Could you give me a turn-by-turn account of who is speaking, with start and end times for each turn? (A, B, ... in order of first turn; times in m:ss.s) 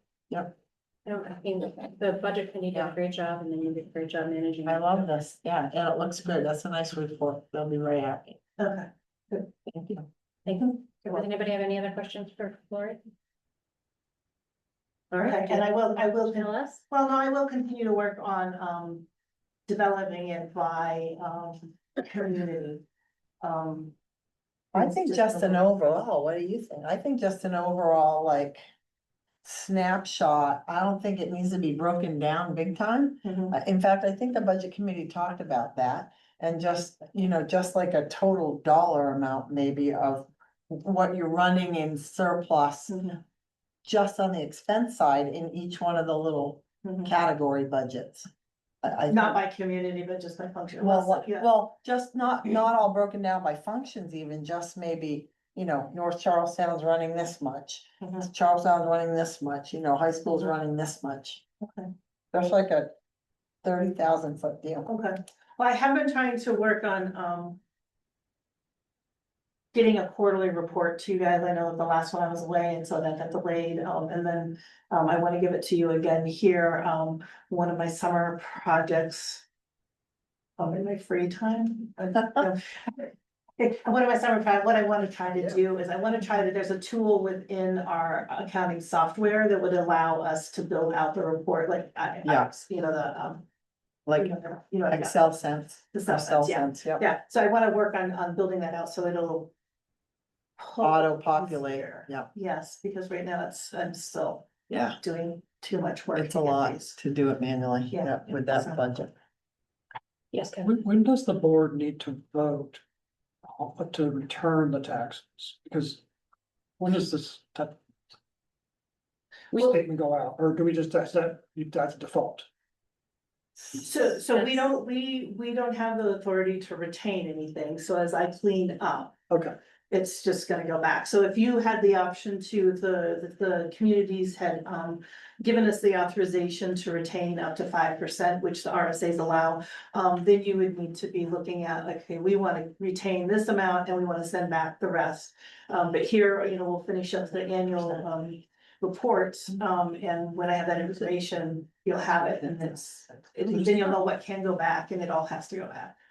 0:01.0-0:05.1 A
0:04.6-0:08.4 B
0:08.6-0:09.5 C
0:09.7-0:10.0 B
0:10.4-0:13.0 A
0:15.1-0:16.8 A
0:15.2-0:19.1 C
0:19.7-0:22.8 C
0:23.4-0:23.9 C
0:24.7-0:25.7 C
0:24.7-0:28.6 B
0:29.4-0:43.0 B
0:33.2-0:33.6 C
0:42.9-0:43.2 C
0:43.8-0:48.3 B
0:46.8-0:47.1 C
0:48.8-0:49.4 B
0:49.1-0:51.5 C
0:50.8-1:01.4 B
1:01.6-1:01.9 C
1:02.3-1:02.9 B
1:03.6-1:04.9 B
1:04.9-1:07.6 C
1:09.7-1:19.4 C
1:20.6-1:33.5 C
1:32.2-1:32.5 B
1:34.1-1:37.0 B
1:34.2-1:35.2 C
1:35.9-1:39.5 C
1:40.6-1:47.0 C
1:40.8-1:42.3 B
1:44.7-1:45.0 B
1:46.1-1:49.1 B
1:47.9-1:48.8 C
1:50.3-1:50.7 A
1:50.6-1:52.8 D
1:53.4-1:56.0 D
1:56.8-1:57.8 D
1:59.5-1:59.8 A
1:59.5-2:02.5 D
2:03.7-2:09.1 C
2:04.3-2:04.6 A
2:09.3-2:09.5 D
2:09.9-2:35.9 C